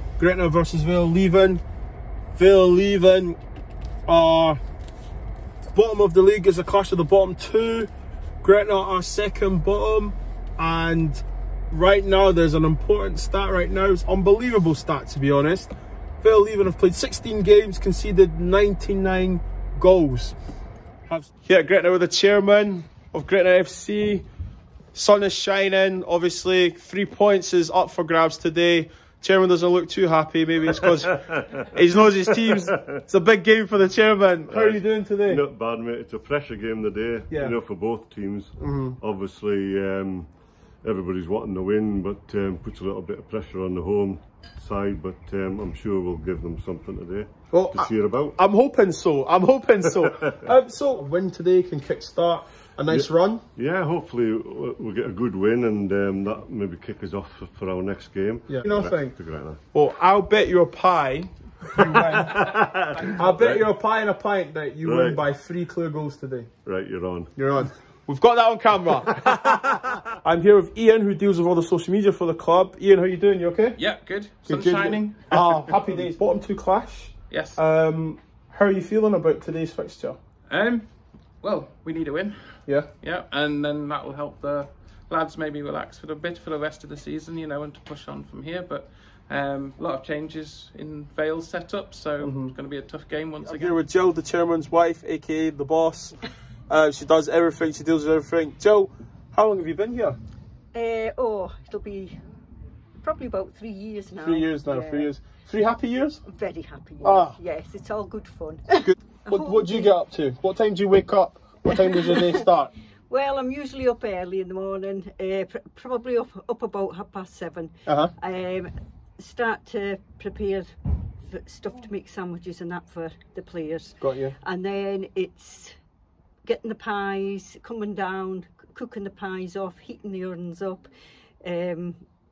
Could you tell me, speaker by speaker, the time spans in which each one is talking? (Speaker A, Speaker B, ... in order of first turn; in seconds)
Speaker A: 0.2-1.6, 2.4-3.4, 4.1-4.6, 5.7-7.9, 8.4-15.7, 16.2-20.4, 21.1-24.2, 24.9-31.2, 31.7-35.5, 37.3-37.6, 38.6-39.0, 47.5-53.5, 58.5-62.6, 63.1-66.5, 67.3-73.8, 74.4-80.2, 82.7-82.9, 92.2-92.5, 93.4-96.2, 96.7-100.2, 104.2-106.2, 107.0-107.4, 108.8-112.7, 117.9-118.1, 124.0-124.4
Speaker B: 32.5-33.0, 34.5-48.4, 52.9-59.6, 62.0-62.7, 63.2-63.7, 64.8-65.2, 66.7-67.3
Speaker C: 73.8-75.8, 77.3-77.6, 80.5-93.8
Speaker D: 100.7-102.2, 103.0-105.1, 106.2-110.0, 112.0-112.4, 113.1-120.7, 121.3-125.8, 126.5-130.9, 131.4-132.0